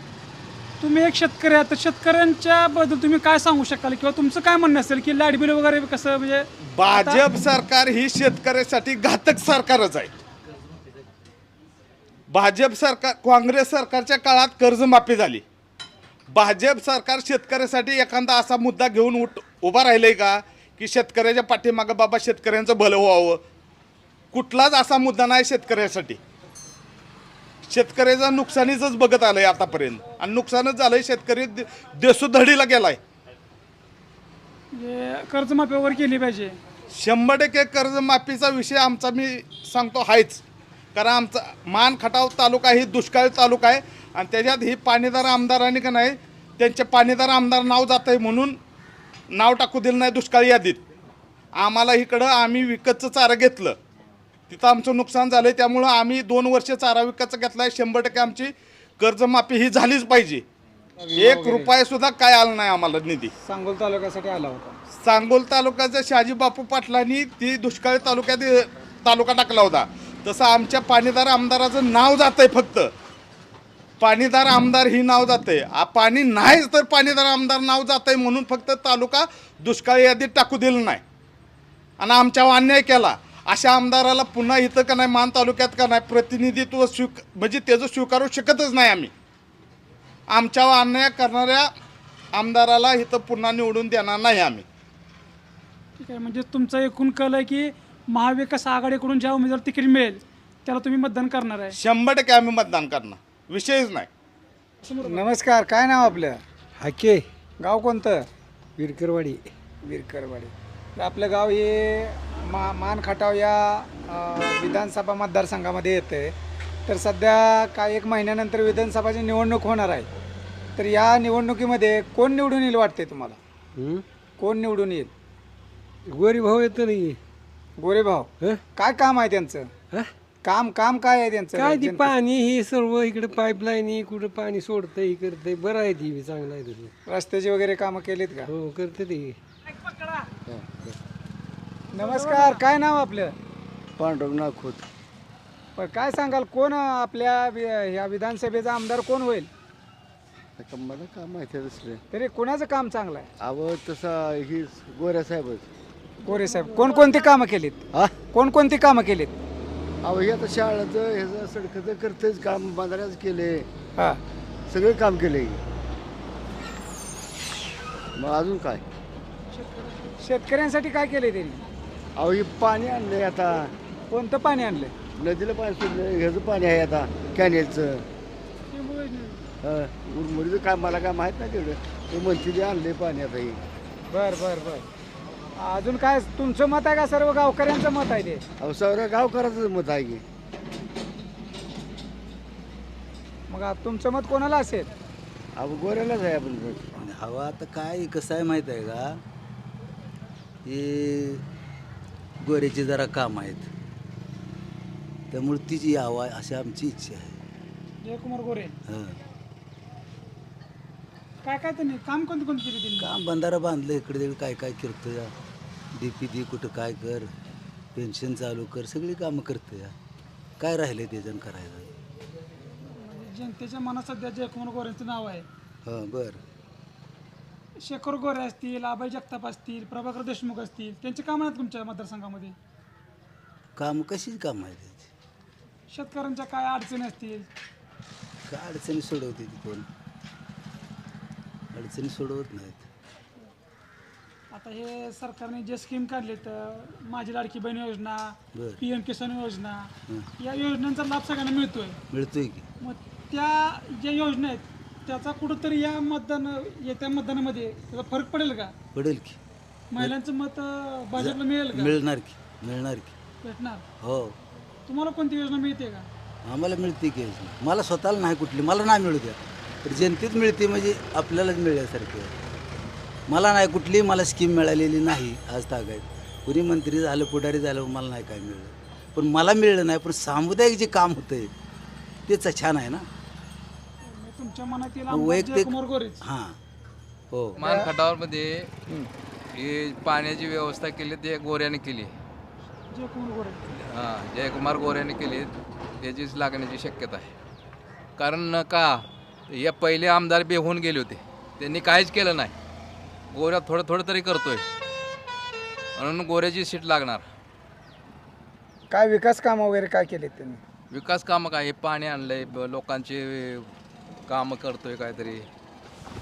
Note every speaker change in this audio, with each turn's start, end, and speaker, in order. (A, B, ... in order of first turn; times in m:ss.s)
0:00.8-0:07.2 A
0:06.7-0:10.1 B
0:12.3-0:15.4 B
0:16.3-0:23.4 B
0:24.3-0:26.2 B
0:27.7-0:33.0 B
0:34.8-0:36.6 A
0:36.9-0:40.4 B
0:40.9-0:48.6 B
0:49.3-0:50.8 B
0:51.6-0:53.8 B
0:54.5-1:00.4 B
1:01.0-1:01.7 C
1:01.2-1:03.3 B
1:03.4-1:04.8 C
1:05.0-1:12.9 B
1:14.0-1:21.0 B
1:22.0-1:29.1 B
1:30.3-1:31.7 B
1:32.3-1:34.6 B
1:36.0-1:41.8 A
1:41.8-1:44.1 B
1:44.8-1:45.3 A
1:45.0-1:46.4 C
1:46.8-1:47.2 D
1:47.6-1:48.3 C
1:48.8-1:49.4 D
1:49.8-1:56.3 C
1:56.9-2:00.1 C
2:00.8-2:03.4 C
2:03.8-2:04.0 D
2:04.4-2:05.1 C
2:06.1-2:07.2 D
2:07.8-2:09.7 C
2:10.4-2:12.2 C
2:11.5-2:16.9 D
2:17.1-2:18.5 C
2:18.5-2:19.4 D
2:20.4-2:21.0 E
2:21.9-2:23.4 C
2:21.9-2:22.6 A
2:24.0-2:24.9 E
2:25.8-2:29.5 C
2:30.6-2:32.0 E
2:32.1-2:33.3 C
2:33.4-2:35.7 E
2:36.2-2:37.3 A
2:36.2-2:39.3 C
2:40.0-2:43.7 E
2:44.7-2:45.6 E
2:48.2-2:48.8 E
2:49.6-2:49.9 A
2:50.2-2:51.6 C
2:52.2-2:53.7 E
2:54.1-2:54.9 C
2:55.2-2:58.1 E
2:58.7-2:59.4 A
2:59.6-3:03.6 E
3:04.1-3:04.9 C
3:05.6-3:08.4 C
3:08.6-3:10.2 E
3:13.5-3:14.9 C
3:15.6-3:17.1 E
3:17.0-3:19.2 F
3:20.6-3:21.4 F
3:22.4-3:23.7 F
3:25.3-3:27.4 F
3:28.0-3:28.8 A
3:28.9-3:29.2 F
3:31.4-3:33.1 A
3:33.0-3:35.3 F
3:36.0-3:37.3 F
3:38.0-3:39.9 F
3:40.6-3:41.9 F
3:42.8-3:45.4 A
3:45.8-3:46.4 F
3:47.8-3:52.5 A
3:53.8-3:55.1 F
3:55.9-3:57.5 A
3:58.5-3:59.9 F
4:01.7-4:02.8 F
4:04.5-4:09.9 A
4:08.5-4:08.8 F
4:10.4-4:12.0 A
4:12.1-4:12.7 F
4:12.8-4:18.7 A
4:18.9-4:19.4 F
4:19.9-4:22.0 A
4:21.1-4:23.1 F
4:23.4-4:23.8 A
4:24.0-4:24.4 F
4:24.9-4:26.1 A
4:26.4-4:32.3 F
4:33.3-4:41.5 F
4:42.2-4:43.1 F
4:44.1-4:46.2 A
4:45.1-4:46.6 F
4:47.3-4:47.6 F
4:47.6-4:48.7 G
4:47.6-4:47.9 C
4:49.5-4:52.1 G
4:52.9-4:53.6 A
4:53.7-4:57.3 G
4:58.2-5:02.5 G
5:03.3-5:04.6 G
5:06.0-5:07.2 G
5:08.9-5:10.6 C
5:10.9-5:13.7 G
5:14.3-5:15.5 G